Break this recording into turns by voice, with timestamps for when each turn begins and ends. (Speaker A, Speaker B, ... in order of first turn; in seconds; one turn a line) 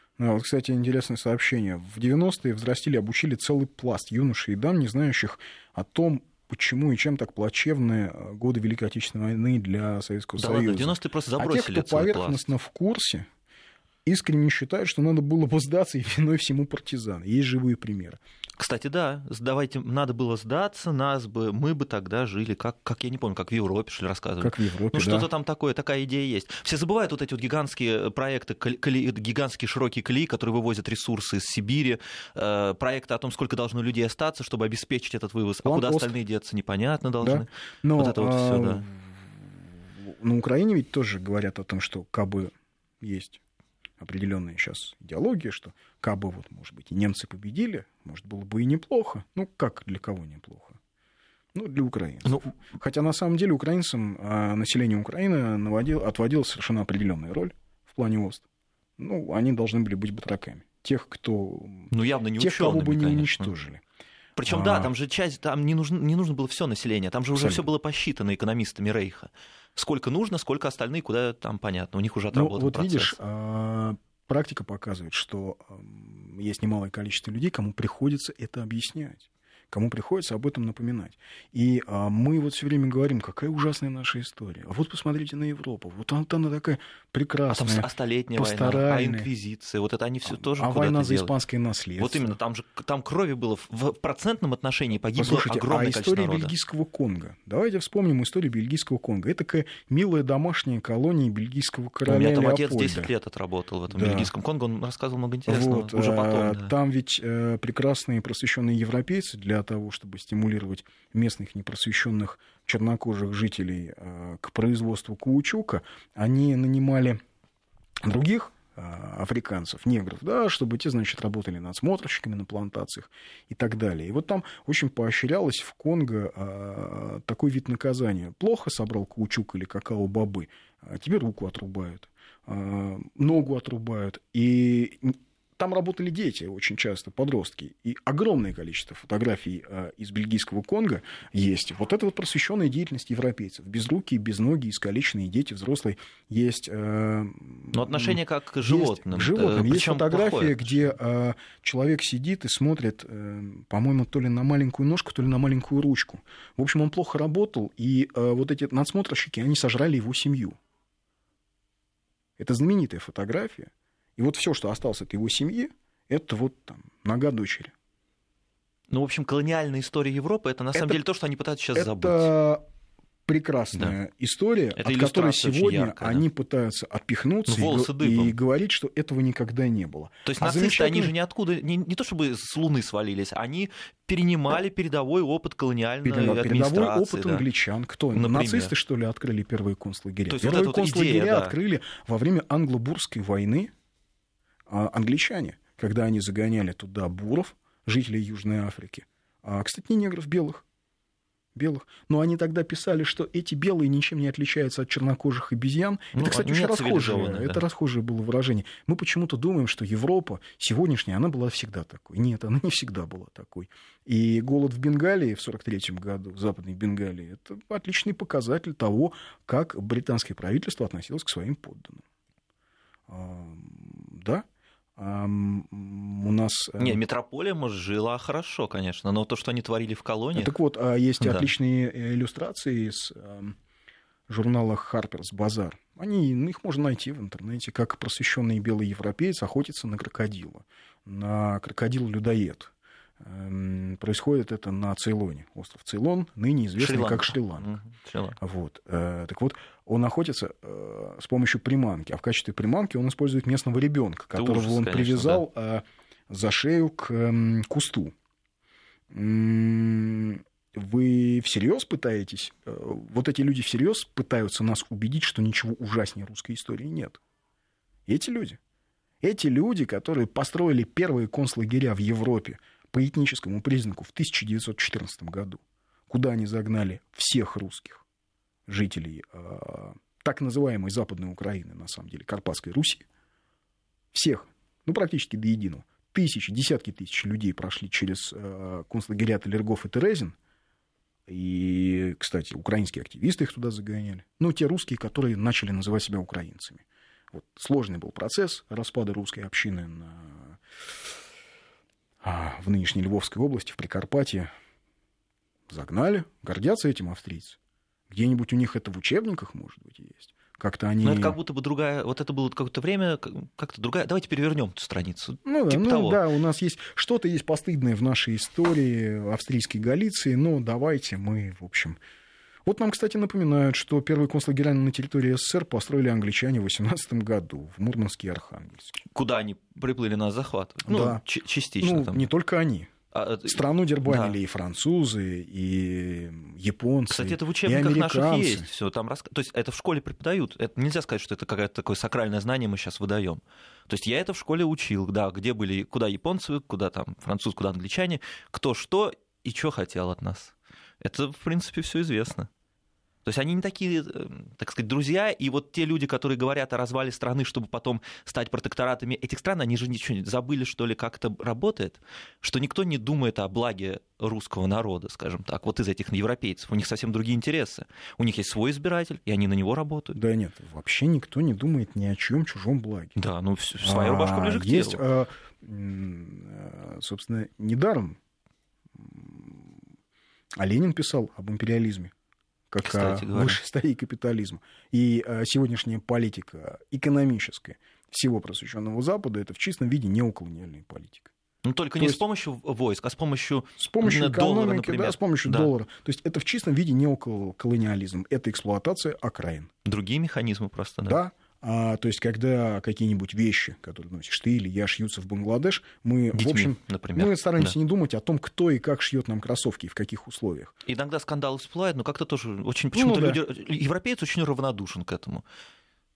Speaker A: 0.2-13.2
Speaker B: 10.4-12.5
Speaker A: 14.1-18.2
Speaker B: 18.6-38.8
Speaker A: 24.4-25.3
Speaker A: 35.6-36.1
Speaker A: 37.2-43.4
Speaker A: 44.0-50.8
Speaker A: 51.5-58.4
Speaker A: 59.0-63.8
Speaker B: 61.9-63.5
Speaker B: 64.3-73.2
Speaker A: 64.5-64.9
Speaker A: 67.3-67.7
Speaker A: 72.3-89.3
Speaker B: 87.5-91.3
Speaker A: 90.2-92.3
Speaker B: 92.0-96.5
Speaker A: 95.2-103.1
Speaker B: 102.0-106.7
Speaker A: 103.9-104.3
Speaker A: 105.5-117.2
Speaker A: 118.0-160.6
Speaker B: 147.7-150.7
Speaker A: 162.4-167.7
Speaker B: 168.9-172.3
Speaker A: 170.7-171.0
Speaker A: 171.7-172.6
Speaker A: 173.3-181.1
Speaker B: 174.8-176.2
Speaker B: 177.5-178.4
Speaker B: 180.2-187.4
Speaker A: 186.0-193.7
Speaker B: 188.1-188.7
Speaker B: 190.3-191.5
Speaker A: 194.7-200.6
Speaker A: 201.5-222.0
Speaker B: 206.1-207.6
Speaker A: 223.1-224.4
Speaker A: 225.0-227.0
Speaker B: 226.8-230.5
Speaker A: 230.3-233.6
Speaker B: 231.2-231.5
Speaker A: 234.3-247.7
Speaker B: 246.8-248.4
Speaker A: 248.4-258.1
Speaker B: 254.3-255.4
Speaker A: 259.1-267.2
Speaker A: 268.1-268.6
Speaker A: 269.2-278.0
Speaker A: 278.7-283.0
Speaker A: 284.1-290.4
Speaker A: 291.3-300.6
Speaker A: 302.2-304.5
Speaker A: 305.7-307.6
Speaker A: 308.1-311.4
Speaker B: 311.0-316.2
Speaker A: 315.4-322.0
Speaker A: 322.7-329.0
Speaker B: 329.1-332.3
Speaker A: 330.8-331.2
Speaker A: 331.8-332.9
Speaker B: 333.1-334.4
Speaker A: 333.4-338.7
Speaker B: 337.1-352.5
Speaker B: 353.2-370.2
Speaker A: 370.1-373.1
Speaker B: 373.1-375.0
Speaker A: 373.8-378.2
Speaker A: 379.0-379.8
Speaker A: 380.6-382.1
Speaker A: 382.7-391.3
Speaker B: 382.8-383.6
Speaker B: 391.6-395.7
Speaker A: 393.8-399.7
Speaker B: 399.8-401.2
Speaker A: 401.0-410.7
Speaker B: 406.3-407.7
Speaker B: 410.8-415.4
Speaker A: 412.9-413.4